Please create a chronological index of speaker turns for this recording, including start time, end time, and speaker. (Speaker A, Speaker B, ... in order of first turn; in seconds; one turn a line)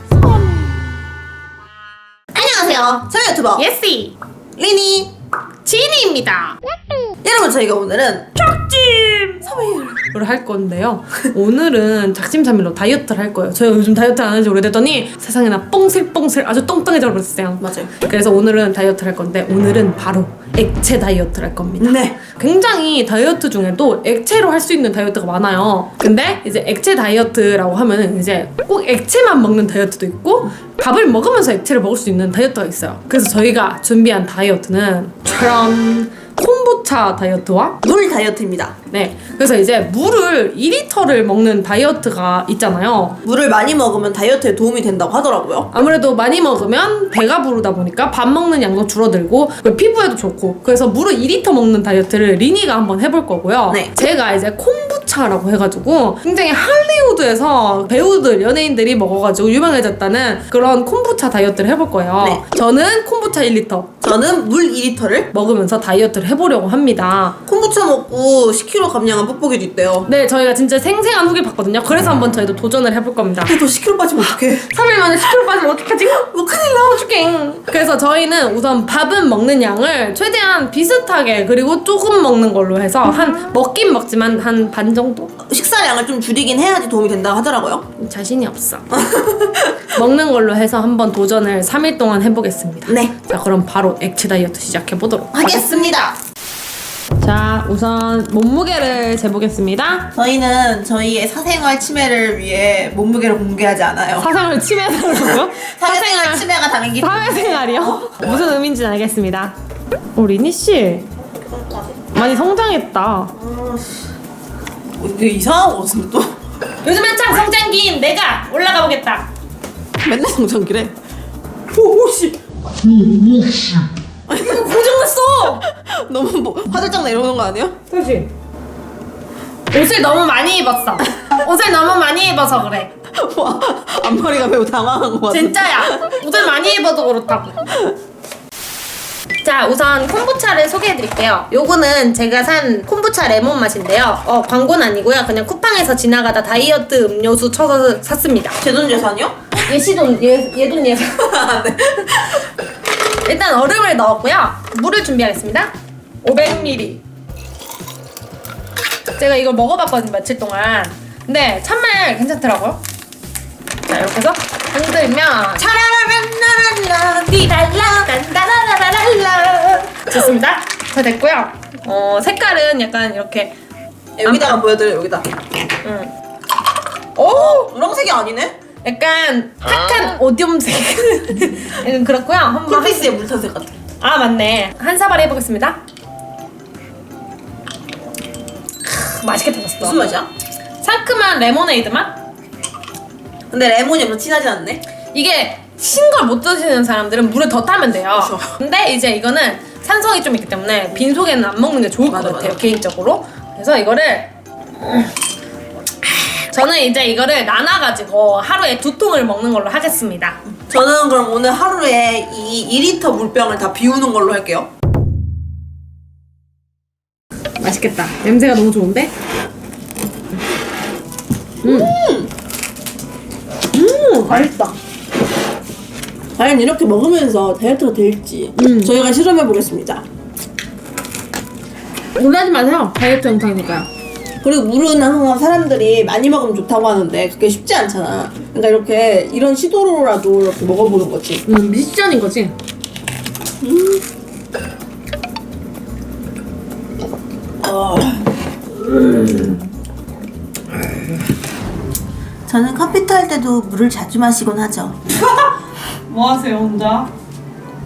Speaker A: 2.3-3.6
Speaker B: 3.6-4.2
Speaker A: 4.6-5.1
Speaker B: 5.7-6.6
Speaker A: 7.2-8.3
Speaker B: 8.4-9.5
Speaker A: 9.4-10.0
Speaker B: 10.1-37.8
Speaker A: 17.6-17.9
Speaker A: 21.8-22.2
Speaker A: 37.8-38.8
Speaker B: 38.9-43.2
Speaker A: 43.2-45.7
Speaker B: 45.7-63.9
Speaker A: 64.0-65.3
Speaker B: 65.3-67.4
Speaker A: 67.5-70.1
Speaker B: 70.1-73.6
Speaker A: 73.5-74.7
Speaker B: 74.2-85.3
Speaker A: 76.4-76.7
Speaker A: 85.4-87.8
Speaker B: 88.0-88.9
Speaker A: 88.9-90.0
Speaker B: 89.9-96.0
Speaker A: 92.9-93.1
Speaker A: 95.3-96.2
Speaker B: 97.2-100.1
Speaker A: 100.1-104.3
Speaker B: 104.2-106.5
Speaker A: 105.1-108.4
Speaker B: 107.0-109.5
Speaker B: 110.2-111.1
Speaker A: 111.3-112.1
Speaker B: 112.1-113.3
Speaker A: 113.3-114.2
Speaker A: 115.0-116.3
Speaker B: 116.8-119.3
Speaker A: 120.0-120.9
Speaker A: 121.8-122.3
Speaker B: 121.8-122.3
Speaker B: 122.8-125.6
Speaker A: 124.3-127.8
Speaker B: 127.9-128.3
Speaker B: 129.7-132.9
Speaker A: 133.1-136.2
Speaker B: 135.3-137.7
Speaker B: 139.4-148.6
Speaker A: 148.6-149.3
Speaker B: 149.6-151.2
Speaker A: 151.2-152.5
Speaker B: 153.2-155.7
Speaker B: 156.2-157.0
Speaker B: 159.2-162.8
Speaker B: 163.9-165.7
Speaker A: 165.6-168.2
Speaker B: 167.3-173.5
Speaker A: 174.2-175.3
Speaker B: 174.2-174.6
Speaker B: 175.8-176.1
Speaker B: 177.2-177.7
Speaker A: 177.2-178.6
Speaker B: 178.8-183.2
Speaker A: 182.7-183.7
Speaker B: 184.0-185.8
Speaker B: 188.8-190.1
Speaker A: 189.8-190.3
Speaker B: 190.8-192.2
Speaker A: 193.5-194.8
Speaker B: 195.1-204.3
Speaker A: 198.2-198.5
Speaker A: 202.1-202.6
Speaker B: 206.3-210.4
Speaker A: 210.7-214.7
Speaker B: 217.6-219.1
Speaker A: 221.6-222.3
Speaker B: 221.6-221.9
Speaker B: 223.7-224.5
Speaker A: 224.3-224.8
Speaker A: 226.4-230.1
Speaker B: 228.6-228.9
Speaker B: 232.2-233.9
Speaker A: 234.4-241.4
Speaker B: 241.5-242.6
Speaker A: 243.6-244.0
Speaker A: 247.6-248.3
Speaker A: 248.9-249.6
Speaker A: 252.5-255.0
Speaker B: 255.2-255.5
Speaker B: 256.1-257.1